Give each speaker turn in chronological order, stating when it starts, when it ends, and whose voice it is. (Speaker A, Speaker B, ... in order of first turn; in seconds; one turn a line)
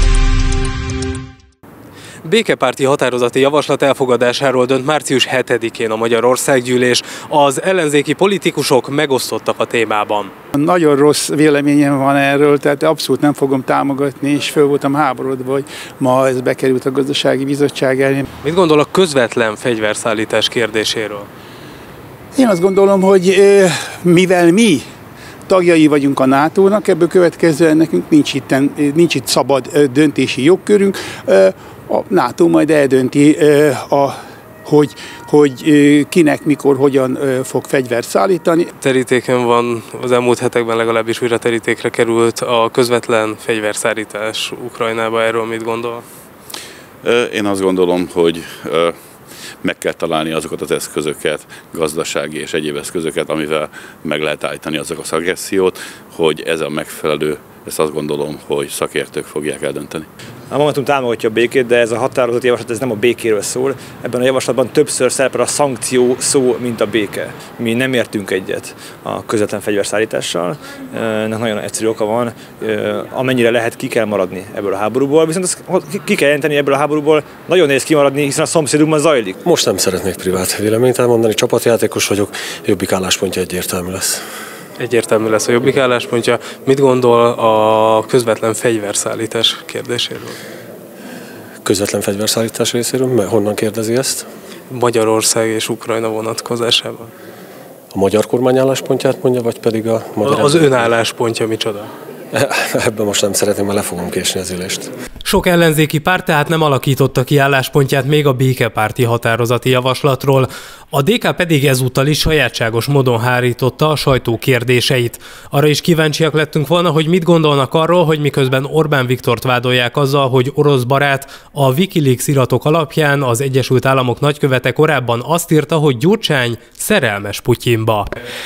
Speaker A: 2.2-10.3
Speaker B: 10.6-18.2
Speaker A: 18.4-21.3
Speaker B: 22.3-24.8
Speaker B: 25.5-38.7
Speaker A: 38.8-46.0
Speaker C: 47.0-49.0
Speaker C: 49.6-60.1
Speaker D: 60.5-79.4
Speaker E: 79.4-84.2
Speaker A: 84.8-90.4
Speaker E: 91.6-94.3
Speaker A: 94.7-97.1
Speaker E: 97.9-100.9
Speaker A: 100.2-101.9
Speaker E: 102.3-104.9
Speaker A: 105.2-128.1